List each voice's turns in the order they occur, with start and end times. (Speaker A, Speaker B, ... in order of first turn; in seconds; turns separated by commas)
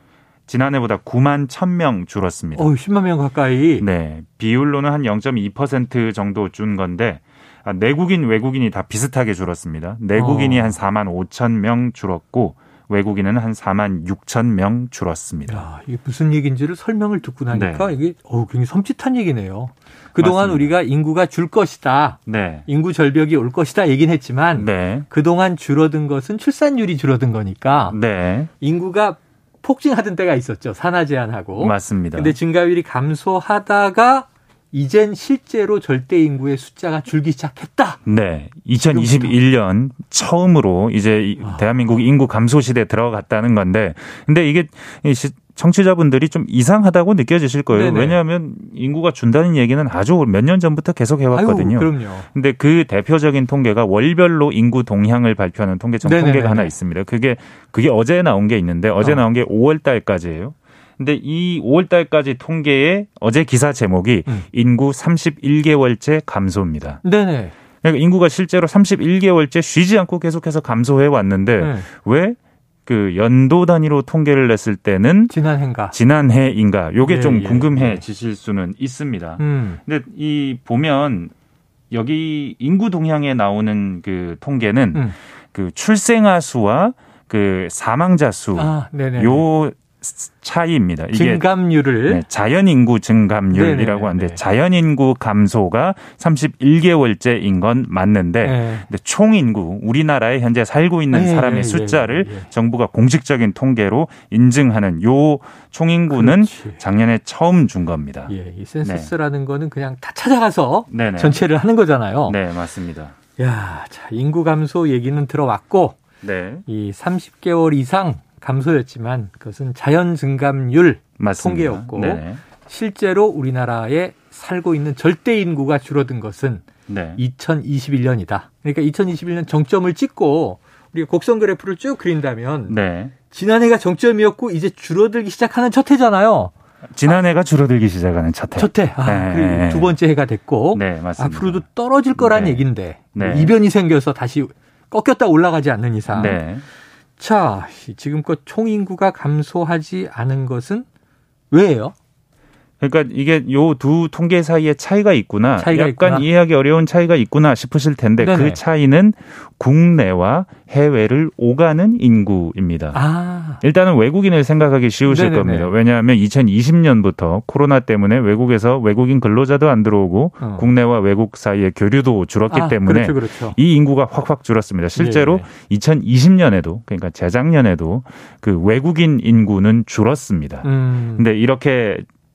Speaker A: 0.5-2.7, Speaker B: 2.5-3.9, Speaker A: 3.8-15.7, Speaker B: 10.1-10.8, Speaker B: 15.5-28.0, Speaker A: 17.5-17.9, Speaker A: 20.2-20.7, Speaker A: 22.3-22.7, Speaker A: 24.6-25.1, Speaker A: 27.9-28.5, Speaker B: 28.6-38.0, Speaker A: 31.6-32.4, Speaker A: 38.0-67.0, Speaker B: 38.9-39.4, Speaker B: 41.4-41.7, Speaker B: 47.7-48.2, Speaker B: 51.3-52.3, Speaker B: 56.0-56.8, Speaker B: 59.0-59.2, Speaker B: 67.0-67.5, Speaker A: 67.8-75.3, Speaker B: 71.6-71.9, Speaker B: 75.3-76.0, Speaker A: 75.9-81.3, Speaker B: 77.0-78.0, Speaker B: 79.4-79.8, Speaker A: 81.9-91.5, Speaker B: 88.5-89.5, Speaker B: 91.1-92.2, Speaker A: 92.0-109.1, Speaker B: 93.5-94.4, Speaker B: 98.4-98.9, Speaker B: 101.1-102.5, Speaker B: 106.1-106.8, Speaker B: 108.3-112.4, Speaker A: 110.9-111.4, Speaker A: 112.3-113.2, Speaker B: 113.4-116.0, Speaker A: 116.2-116.7, Speaker B: 116.7-126.6, Speaker A: 121.2-122.4, Speaker A: 126.9-127.2, Speaker B: 127.2-132.8, Speaker A: 132.7-133.1, Speaker B: 133.3-136.5, Speaker A: 137.0-139.9, Speaker B: 138.6-146.4, Speaker A: 140.7-141.7, Speaker A: 142.2-143.6, Speaker A: 146.1-146.7, Speaker B: 147.2-150.9, Speaker B: 151.5-151.9, Speaker A: 152.8-163.0, Speaker B: 155.6-156.3, Speaker B: 158.2-158.6, Speaker B: 162.9-163.6, Speaker A: 163.6-182.1, Speaker B: 165.1-165.7, Speaker B: 170.4-170.7, Speaker B: 172.5-173.6, Speaker B: 175.0-175.5, Speaker B: 180.6-181.3